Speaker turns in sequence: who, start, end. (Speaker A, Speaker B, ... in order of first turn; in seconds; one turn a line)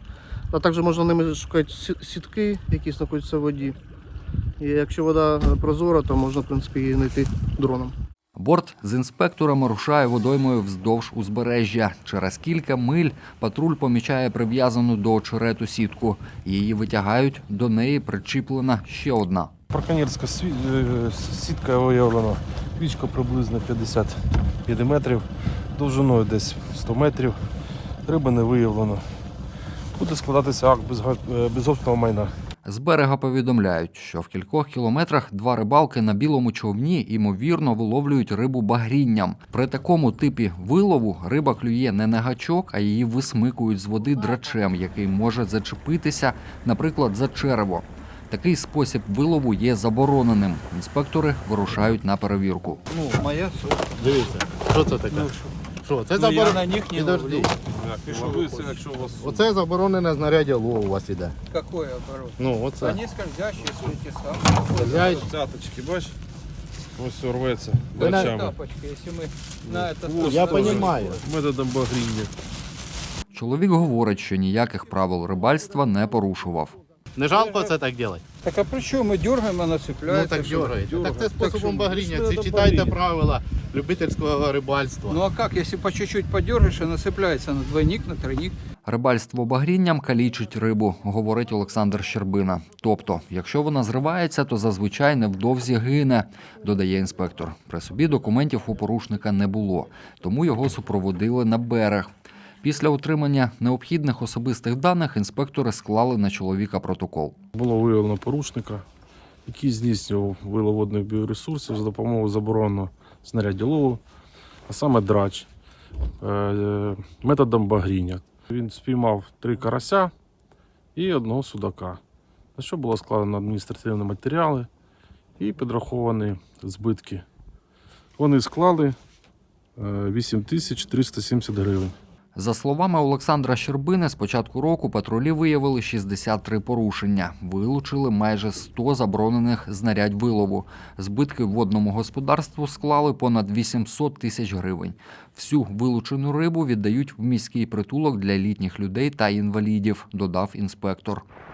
Speaker A: 0.5-3.8
Speaker A: 4.6-7.9
Speaker B: 8.3-19.5
Speaker C: 19.7-27.4
Speaker C: 28.1-29.0
Speaker C: 30.0-32.3
Speaker B: 32.7-52.8
Speaker D: 52.9-53.2
Speaker E: 53.1-53.9
Speaker D: 54.0-55.3
Speaker E: 55.1-55.5
Speaker D: 55.8-57.5
Speaker E: 56.1-57.5
Speaker C: 57.6-59.5
Speaker E: 58.1-58.8
Speaker D: 59.2-61.4
Speaker E: 61.5-65.3
Speaker D: 62.4-63.0
Speaker D: 64.8-65.2
Speaker C: 64.8-66.2
Speaker C: 67.0-68.6
Speaker E: 68.0-71.2
Speaker D: 68.0-68.3
Speaker C: 69.7-72.3
Speaker D: 70.2-71.2
Speaker B: 73.3-76.8
Speaker D: 77.2-78.2
Speaker E: 77.3-77.7
Speaker E: 78.4-81.1
Speaker D: 80.1-85.2
Speaker C: 80.8-83.0
Speaker E: 85.1-88.5
Speaker B: 88.9-102.1
Speaker B: 102.6-107.4
Speaker C: 107.5-108.8
Speaker C: 109.5-114.0
Speaker C: 114.7-115.5
Speaker C: 116.2-120.1
Speaker C: 121.0-122.0
Speaker C: 122.6-124.7
Speaker C: 125.4-127.2
Speaker C: 128.2-129.0
Speaker C: 129.8-131.9
Speaker B: 132.4-151.2